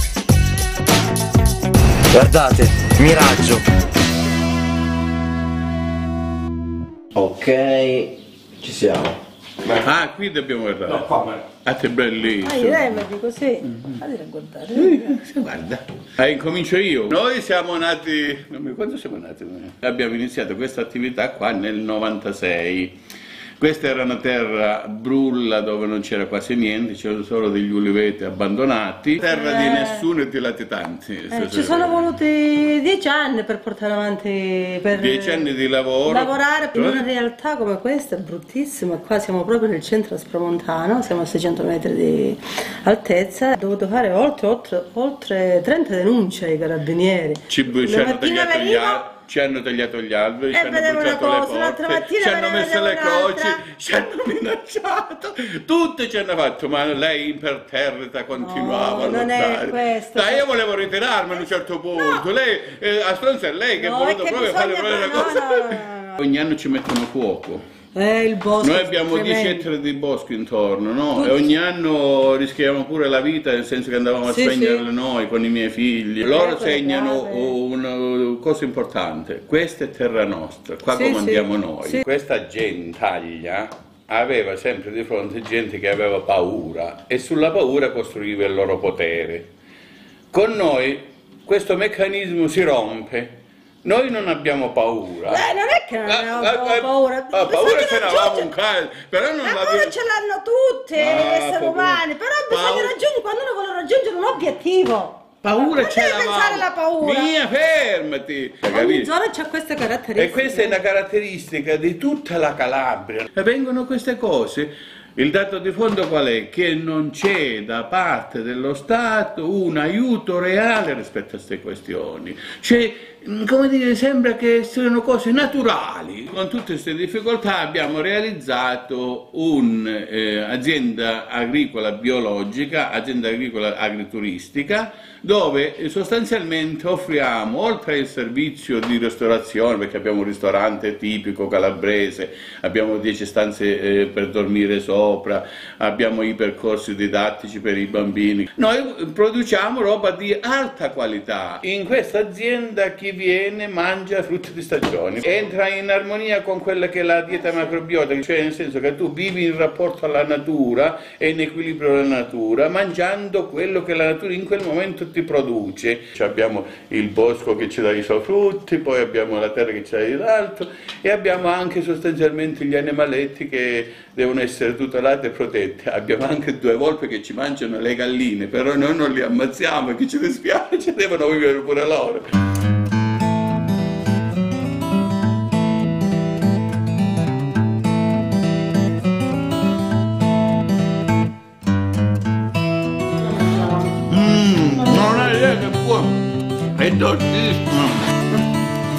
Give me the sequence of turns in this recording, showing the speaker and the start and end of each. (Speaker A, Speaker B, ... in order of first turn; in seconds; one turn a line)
Speaker A: 2.1-3.6
Speaker A: 7.1-9.2
Speaker B: 9.7-13.1
Speaker A: 11.1-11.4
Speaker C: 12.4-15.1
Speaker B: 13.6-14.0
Speaker B: 14.7-22.9
Speaker B: 23.6-32.2
Speaker C: 29.2-30.1
Speaker C: 31.3-35.5
Speaker B: 34.9-37.0
Speaker C: 36.0-49.0
Speaker B: 47.5-67.6
Speaker C: 50.5-53.7
Speaker C: 58.3-60.5
Speaker C: 61.9-62.2
Speaker C: 63.8-66.2
Speaker C: 67.9-69.7
Speaker B: 68.6-89.5
Speaker C: 71.1-71.5
Speaker C: 74.3-74.8
Speaker C: 76.2-77.5
Speaker C: 80.9-82.0
Speaker B: 90.3-93.3
Speaker B: 93.8-95.5
Speaker C: 95.2-98.5
Speaker B: 96.0-100.0
Speaker C: 99.4-107.3
Speaker B: 100.9-103.0
Speaker B: 105.4-109.1
Speaker C: 108.7-110.8
Speaker B: 110.2-182.2
Speaker B: 194.0-196.2
Speaker B: 196.7-198.1